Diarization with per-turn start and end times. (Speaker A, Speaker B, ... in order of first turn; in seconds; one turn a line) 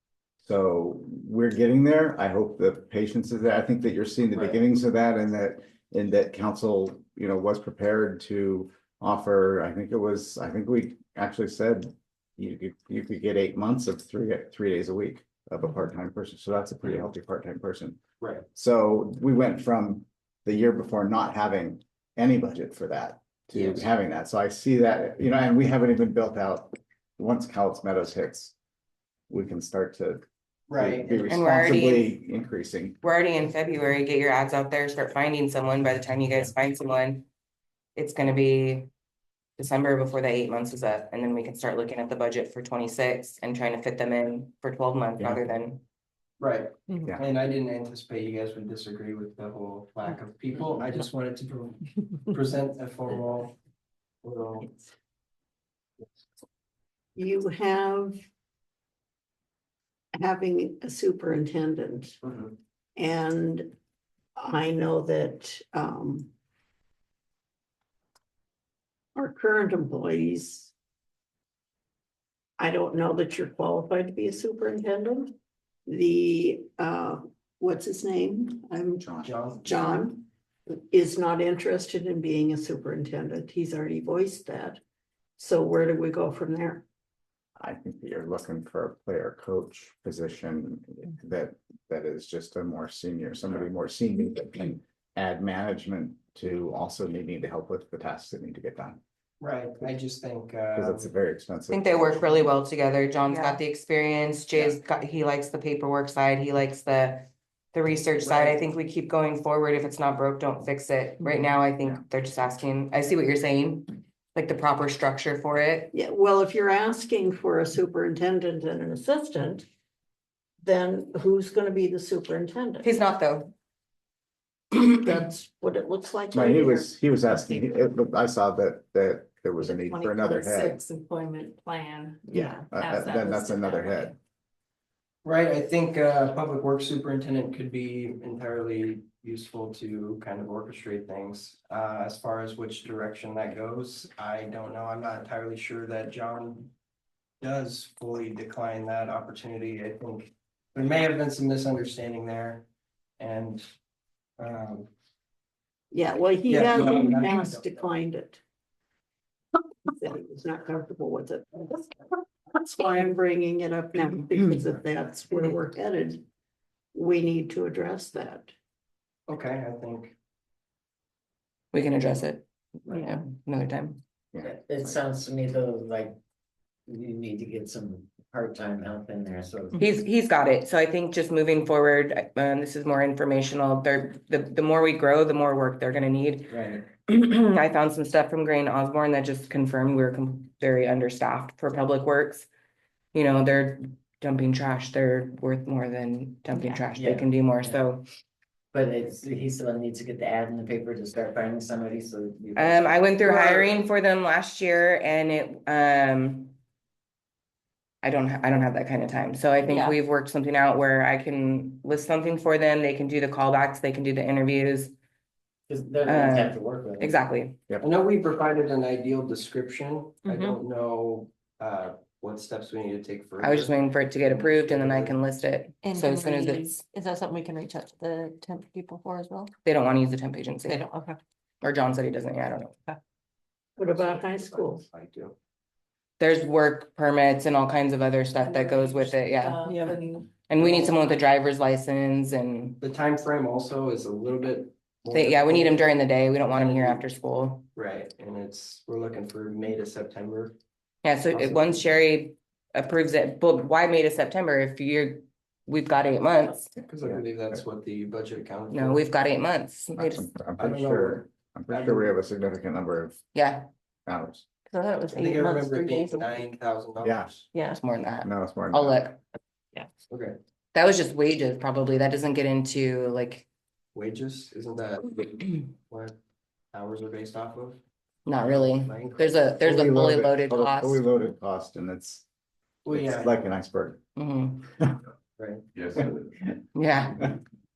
Speaker A: 0.4-18.0
Speaker B: 18.2-18.4
Speaker A: 18.5-28.5
Speaker A: 29.3-30.2
Speaker B: 30.7-31.5
Speaker A: 30.8-33.0
Speaker C: 31.3-32.1
Speaker C: 33.0-37.2
Speaker C: 38.0-38.9
Speaker C: 39.6-45.8
Speaker B: 46.4-51.8
Speaker B: 52.3-53.5
Speaker B: 54.2-54.7
Speaker D: 57.1-58.2
Speaker D: 60.2-62.2
Speaker B: 62.2-62.5
Speaker D: 63.0-63.7
Speaker D: 64.4-66.3
Speaker D: 69.2-70.7
Speaker D: 72.6-75.3
Speaker D: 75.9-84.8
Speaker A: 79.0-79.3
Speaker B: 79.2-79.8
Speaker D: 85.4-86.8
Speaker A: 87.6-99.0
Speaker B: 99.4-101.1
Speaker A: 100.7-102.2
Speaker C: 101.7-115.9
Speaker B: 108.2-108.6
Speaker D: 115.9-119.7
Speaker D: 120.6-122.9
Speaker C: 122.8-123.5
Speaker D: 124.7-126.9
Speaker A: 126.3-130.8
Speaker A: 132.3-134.1
Speaker B: 135.2-146.7
Speaker B: 147.4-152.7
Speaker B: 153.2-153.7
Speaker B: 154.4-154.9
Speaker D: 155.9-158.4
Speaker B: 156.5-157.8
Speaker D: 159.8-166.2
Speaker D: 166.9-168.5
Speaker B: 169.3-170.1
Speaker C: 171.7-174.0
Speaker A: 174.3-175.0
Speaker E: 174.5-176.2
Speaker E: 176.9-179.8
Speaker C: 179.8-192.5
Speaker E: 186.5-186.8
Speaker C: 193.1-198.0
Speaker E: 197.0-197.8
Speaker E: 198.7-202.8
Speaker C: 202.5-206.6
Speaker C: 208.0-214.9
Speaker F: 209.7-210.0
Speaker E: 215.7-217.1
Speaker C: 216.0-217.6
Speaker B: 217.8-223.7
Speaker F: 220.2-220.6
Speaker C: 223.4-226.8
Speaker B: 224.3-225.2
Speaker F: 225.8-229.5
Speaker C: 229.6-230.8
Speaker F: 230.7-231.2
Speaker C: 231.6-232.8
Speaker D: 233.8-234.8
Speaker B: 233.8-235.3
Speaker C: 236.2-239.6
Speaker F: 238.4-240.2
Speaker C: 240.5-242.8
Speaker B: 240.6-240.9
Speaker B: 242.8-245.8
Speaker C: 245.1-247.7
Speaker B: 246.5-247.0
Speaker B: 247.8-250.5
Speaker C: 251.0-256.7
Speaker B: 251.3-251.9
Speaker B: 256.9-259.1
Speaker C: 258.7-260.3
Speaker A: 260.0-263.2
Speaker B: 260.6-262.1
Speaker C: 263.3-263.7
Speaker A: 264.1-264.4
Speaker F: 264.7-266.5
Speaker B: 265.1-267.5
Speaker A: 267.0-267.3
Speaker F: 267.5-267.8
Speaker C: 267.7-269.2
Speaker A: 268.2-269.0
Speaker B: 270.1-270.4
Speaker C: 270.7-273.4
Speaker B: 273.9-276.1
Speaker B: 276.7-277.8
Speaker C: 278.2-281.1
Speaker B: 278.8-279.4
Speaker A: 279.6-282.2
Speaker B: 282.9-283.5
Speaker A: 282.9-284.0
Speaker C: 284.1-284.6
Speaker B: 285.4-286.2
Speaker C: 286.7-287.4